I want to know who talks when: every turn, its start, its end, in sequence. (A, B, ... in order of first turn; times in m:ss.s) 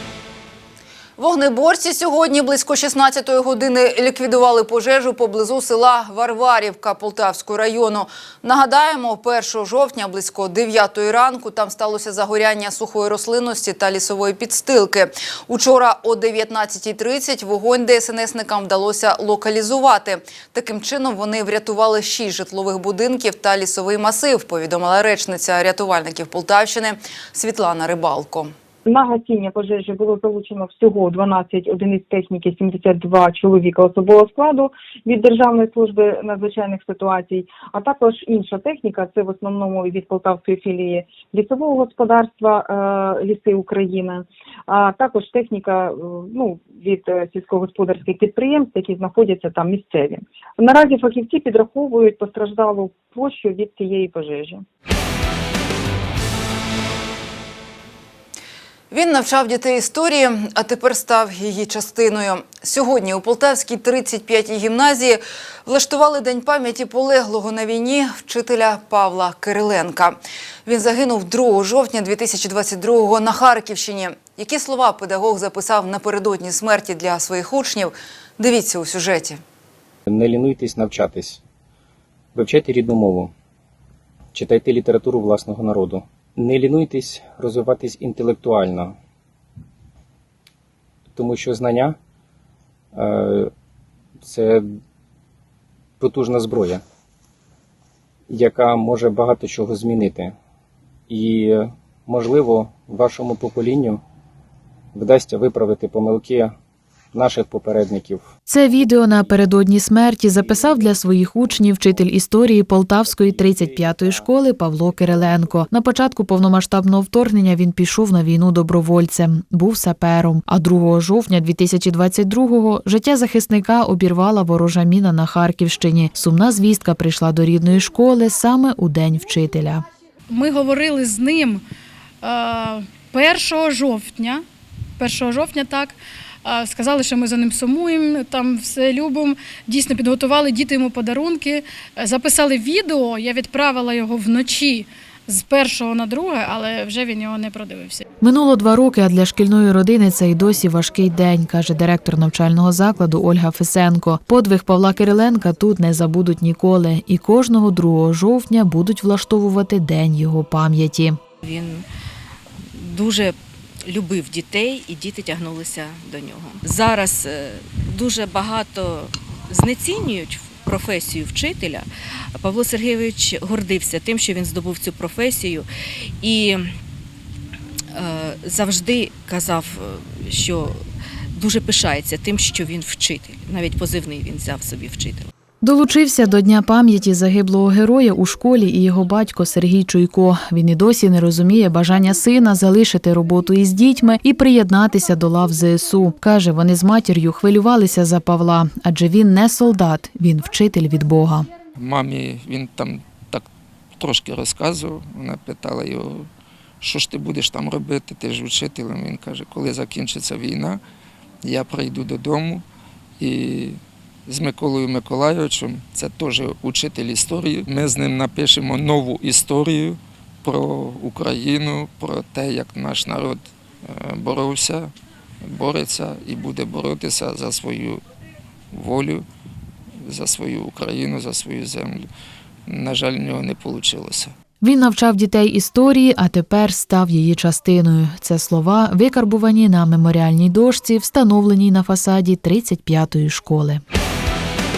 0:01.2-0:28.5 A
0:28.8-0:54.6 B
0:58.9-1:19.4 A
1:20.1-1:21.4 C
1:22.4-1:23.3 C
1:24.3-1:29.0 C
1:31.2-1:32.0 C
1:33.0-1:33.5 C
1:34.2-1:34.6 C
1:36.0-1:36.8 C
1:38.3-1:40.3 C
1:41.1-1:44.0 C
1:44.9-1:46.5 C
1:47.1-1:48.2 C
1:48.5-2:09.8 D
1:50.5-1:50.8 C
1:53.1-1:54.3 C
2:10.3-2:11.6 E
2:12.2-2:14.4 E
2:15.0-2:28.0 E
2:28.2-2:41.2 D
2:41.5-2:41.8 F
2:42.8-2:43.3 F
2:43.9-2:51.9 F
2:52.4-2:55.6 F
2:56.2-2:56.6 F
2:58.0-3:00.8 F
3:01.4-3:05.3 F
3:05.6-3:21.5 D
3:21.8-3:23.4 G
3:24.0-3:26.3 G
3:26.8-3:30.8 G
3:31.4-3:32.6 G
3:33.2-3:44.9 G
3:45.4-3:48.0 G
3:48.7-3:49.2 G
3:50.0-3:52.1 G
3:52.7-3:54.3 G
3:54.6-4:03.8 D